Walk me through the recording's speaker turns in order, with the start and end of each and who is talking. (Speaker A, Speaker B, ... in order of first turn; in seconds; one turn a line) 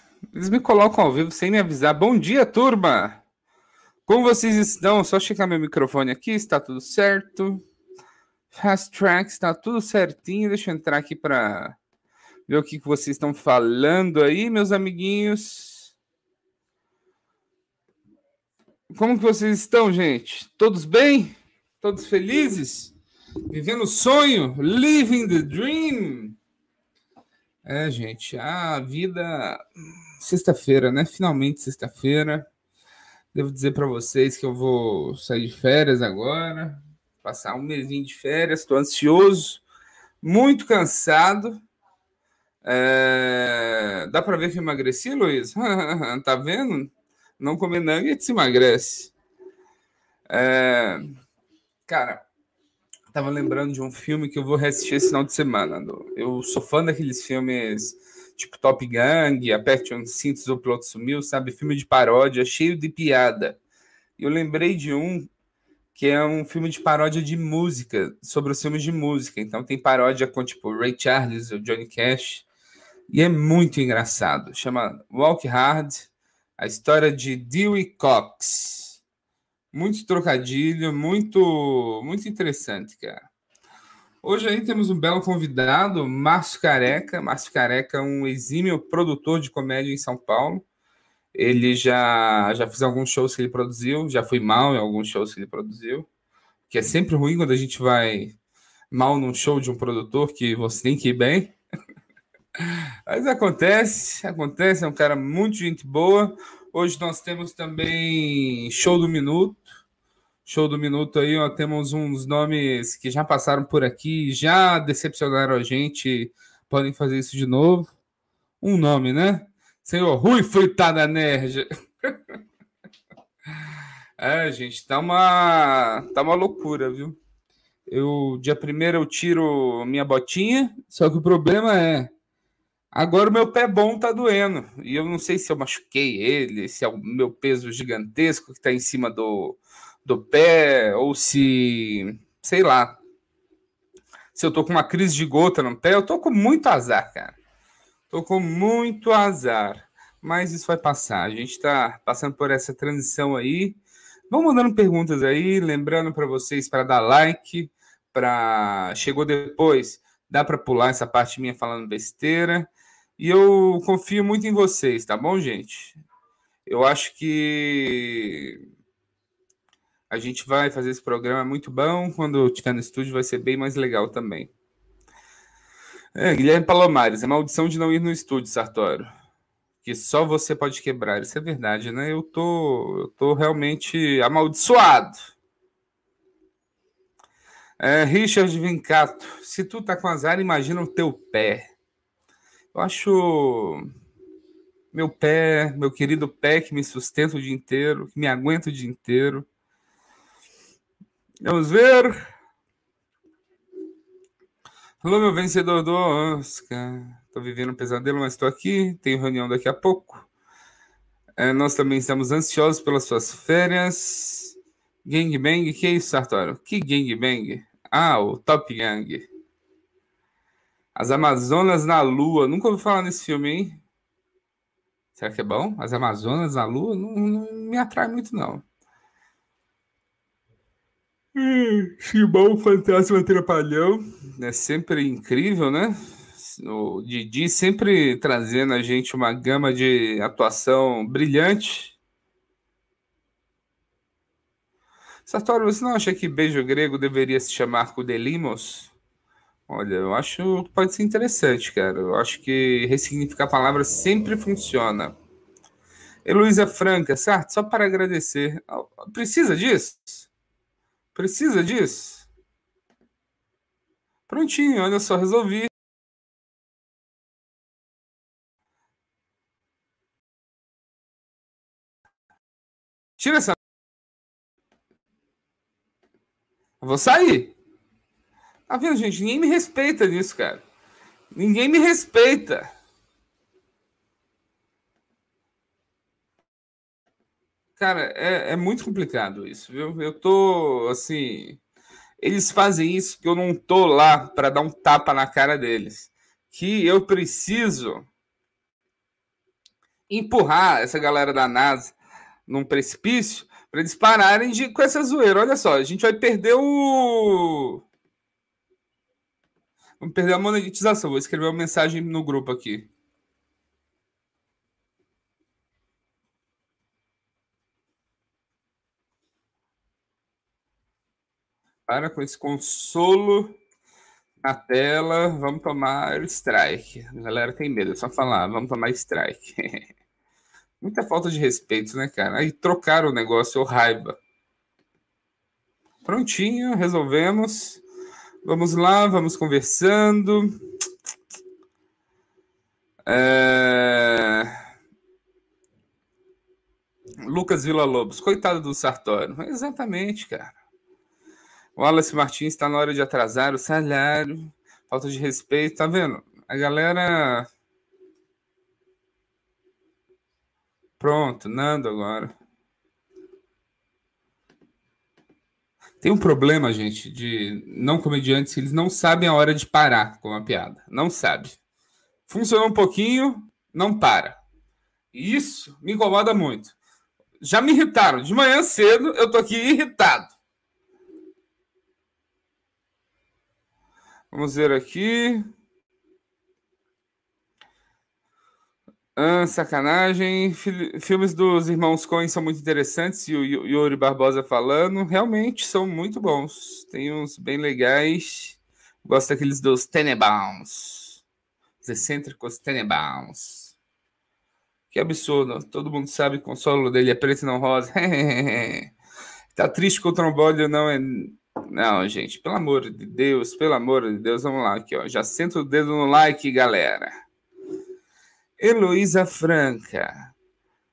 Speaker A: 0.3-3.2
Speaker A: 4.1-7.6
Speaker A: 8.5-11.8
Speaker A: 12.5-15.9
Speaker A: 18.9-22.9
Speaker A: 23.5-26.4
Speaker A: 27.6-29.6
Speaker A: 30.2-32.5
Speaker A: 33.3-39.6
Speaker A: 40.2-41.6
Speaker A: 42.6-49.1
Speaker A: 50.3-51.2
Speaker A: 51.9-52.2
Speaker A: 53.1-63.6
Speaker A: 64.2-65.3
Speaker A: 66.0-72.5
Speaker A: 73.1-79.0
Speaker A: 79.7-83.2
Speaker A: 84.2-90.7
Speaker A: 91.3-96.1
Speaker A: 96.7-98.3
Speaker A: 98.9-101.5
Speaker A: 103.1-109.8
Speaker A: 110.5-117.9
Speaker A: 118.6-122.3
Speaker A: 124.2-127.2
Speaker A: 127.9-132.1
Speaker A: 132.9-143.0
Speaker A: 144.3-147.4
Speaker A: 148.1-153.8
Speaker A: 154.3-166.0
Speaker A: 166.7-168.6
Speaker A: 170.1-174.5
Speaker A: 176.2-179.1
Speaker A: 179.8-185.2
Speaker A: 187.8-191.7
Speaker A: 192.7-193.9
Speaker A: 194.9-199.5
Speaker A: 201.4-202.2
Speaker A: 205.0-210.2
Speaker A: 211.4-219.3
Speaker A: 221.0-223.8
Speaker A: 225.2-228.6
Speaker A: 231.4-241.9
Speaker A: 245.3-248.9
Speaker A: 249.7-255.1
Speaker A: 256.3-260.3
Speaker A: 261.1-262.3
Speaker A: 264.3-265.7
Speaker A: 273.2-273.6
Speaker A: 276.8-277.5
Speaker A: 278.7-280.6
Speaker A: 281.3-282.7
Speaker A: 287.8-291.6
Speaker A: 292.2-298.1
Speaker A: 300.1-301.9
Speaker A: 302.5-307.8
Speaker A: 310.0-312.9
Speaker A: 321.9-323.6
Speaker A: 324.4-329.8
Speaker A: 330.8-334.2
Speaker A: 336.1-337.8
Speaker A: 338.4-340.6
Speaker A: 343.1-344.6
Speaker A: 347.3-350.5
Speaker A: 351.8-357.5
Speaker A: 361.0-362.3
Speaker A: 366.0-371.6
Speaker A: 372.3-374.4
Speaker A: 375.1-376.8
Speaker A: 377.4-380.3
Speaker A: 384.3-385.5
Speaker A: 389.2-401.2
Speaker A: 401.8-403.8
Speaker A: 404.9-408.9
Speaker A: 409.6-417.1
Speaker A: 418.6-420.3